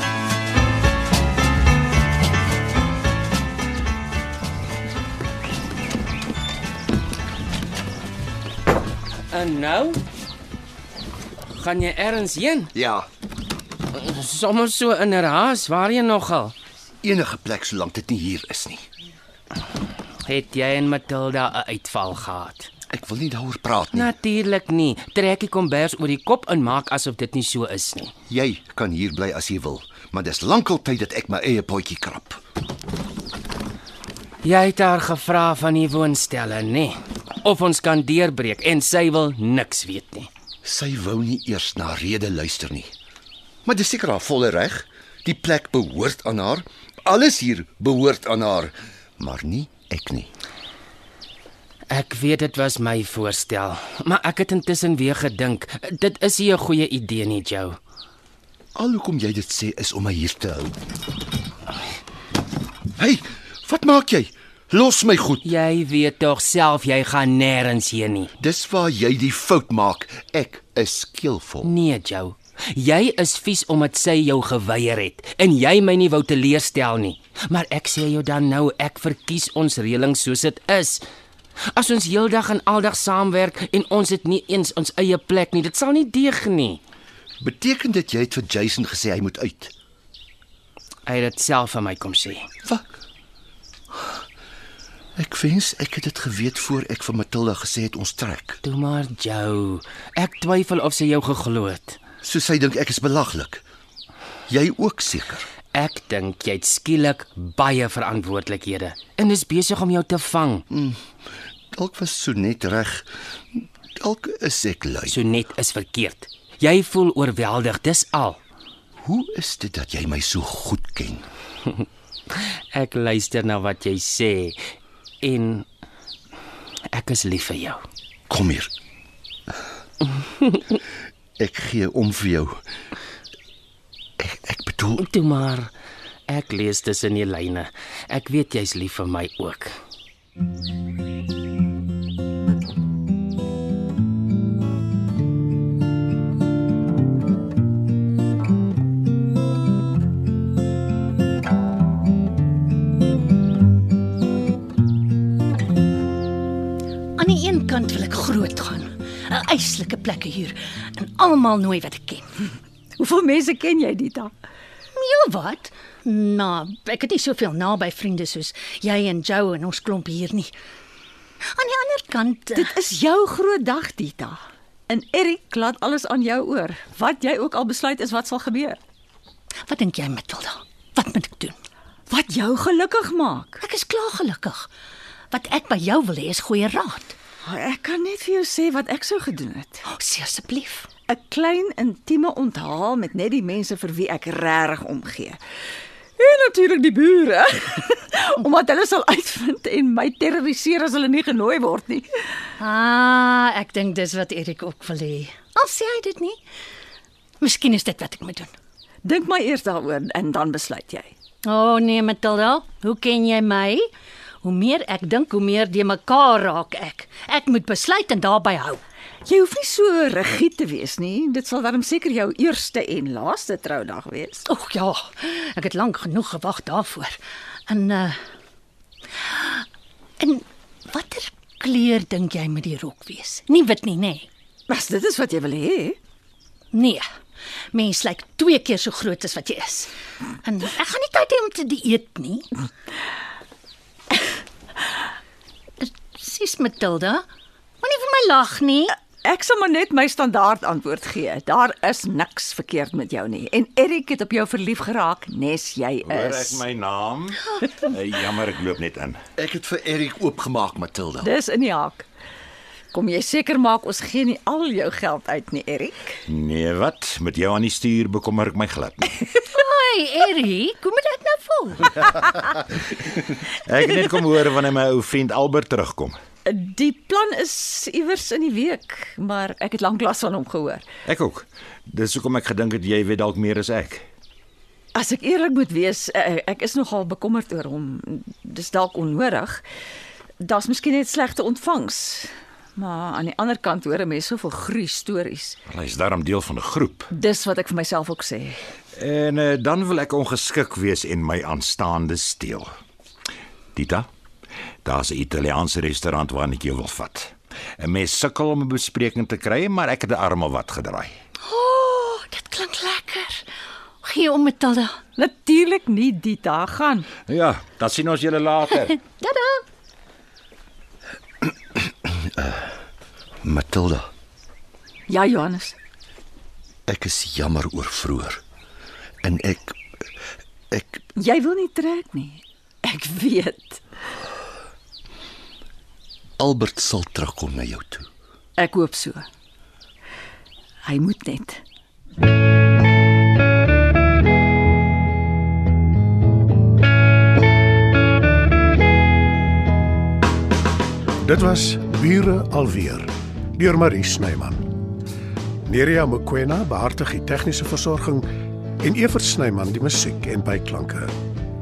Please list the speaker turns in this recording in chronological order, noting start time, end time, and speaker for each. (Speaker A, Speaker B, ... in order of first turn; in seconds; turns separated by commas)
Speaker A: 9.3-10.0, Speaker A: 11.5-12.7, Speaker B: 12.8-13.1, Speaker A: 13.9-16.5, Speaker B: 17.0-18.9, Speaker A: 20.2-22.7, Speaker B: 22.9-24.1, Speaker A: 23.9-28.1, Speaker B: 28.3-32.4, Speaker A: 34.4-40.3, Speaker B: 40.6-42.9, Speaker B: 43.6-50.3, Speaker A: 51.9-57.8, Speaker B: 58.8-60.8, Speaker B: 63.0-65.5, Speaker A: 65.4-68.3, Speaker B: 68.4-71.7, Speaker A: 71.6-81.0, Speaker A: 81.7-86.8, Speaker B: 87.4-89.7, Speaker A: 91.1-92.5, Speaker B: 95.2-98.6, Speaker A: 98.6-102.0, Speaker B: 102.2-103.6, Speaker B: 104.5-105.5, Speaker A: 105.7-110.6, Speaker B: 110.7-111.0, Speaker B: 111.7-113.1, Speaker B: 114.0-115.2, Speaker A: 115.1-118.4, Speaker B: 119.0-121.2, Speaker A: 122.3-124.6, Speaker A: 125.2-125.7, Speaker A: 126.9-127.8, Speaker B: 128.3-128.7, Speaker A: 130.2-130.6, Speaker B: 131.4-132.6, Speaker B: 134.2-135.0, Speaker A: 135.0-135.7, Speaker A: 136.3-139.8, Speaker C: 157.2-162.4, Speaker D: 163.0-164.3, Speaker C: 164.9-170.5, Speaker C: 171.5-172.7, Speaker D: 172.5-178.8, Speaker C: 179.7-181.6, Speaker D: 182.1-183.6, Speaker C: 183.6-184.7, Speaker C: 185.3-187.2, Speaker D: 187.4-189.8, Speaker C: 189.9-190.9, Speaker D: 191.1-195.4, Speaker D: 196.2-202.1, Speaker C: 202.6-206.4, Speaker C: 207.4-208.5, Speaker D: 209.0-211.1, Speaker C: 211.4-213.9, Speaker C: 214.4-218.8, Speaker D: 219.2-224.5, Speaker C: 224.5-228.2, Speaker C: 229.2-229.7, Speaker C: 230.2-234.3, Speaker D: 234.7-236.0, Speaker C: 236.7-237.0, Speaker C: 237.7-239.9, Speaker C: 240.4-242.5, Speaker C: 245.8-247.2, Speaker C: 247.8-248.9, Speaker D: 249.2-256.6, Speaker E: 256.0-259.2, Speaker B: 259.4-261.3, Speaker D: 261.2-262.1, Speaker D: 262.9-266.2, Speaker E: 266.3-269.3, Speaker C: 269.5-272.4, Speaker E: 273.3-276.2, Speaker D: 276.4-280.9, Speaker E: 281.1-284.1, Speaker D: 284.9-289.6, Speaker D: 290.4-295.6, Speaker E: 295.7-297.1, Speaker D: 297.1-298.6, Speaker E: 299.0-302.7, Speaker E: 303.8-304.1, Speaker E: 304.9-311.1, Speaker C: 311.4-313.5, Speaker C: 314.0-315.0, Speaker D: 315.2-317.1, Speaker E: 317.3-319.0, Speaker C: 319.0-319.6, Speaker B: 323.4-324.1, Speaker D: 325.1-325.8, Speaker B: 326.9-328.4, Speaker B: 329.2-329.8, Speaker B: 330.7-331.0, Speaker D: 331.1-333.8, Speaker B: 336.4-338.1, Speaker D: 338.6-339.3, Speaker D: 340.9-341.6, Speaker F: 351.2-354.7, Speaker F: 355.7-358.3, Speaker F: 358.8-361.1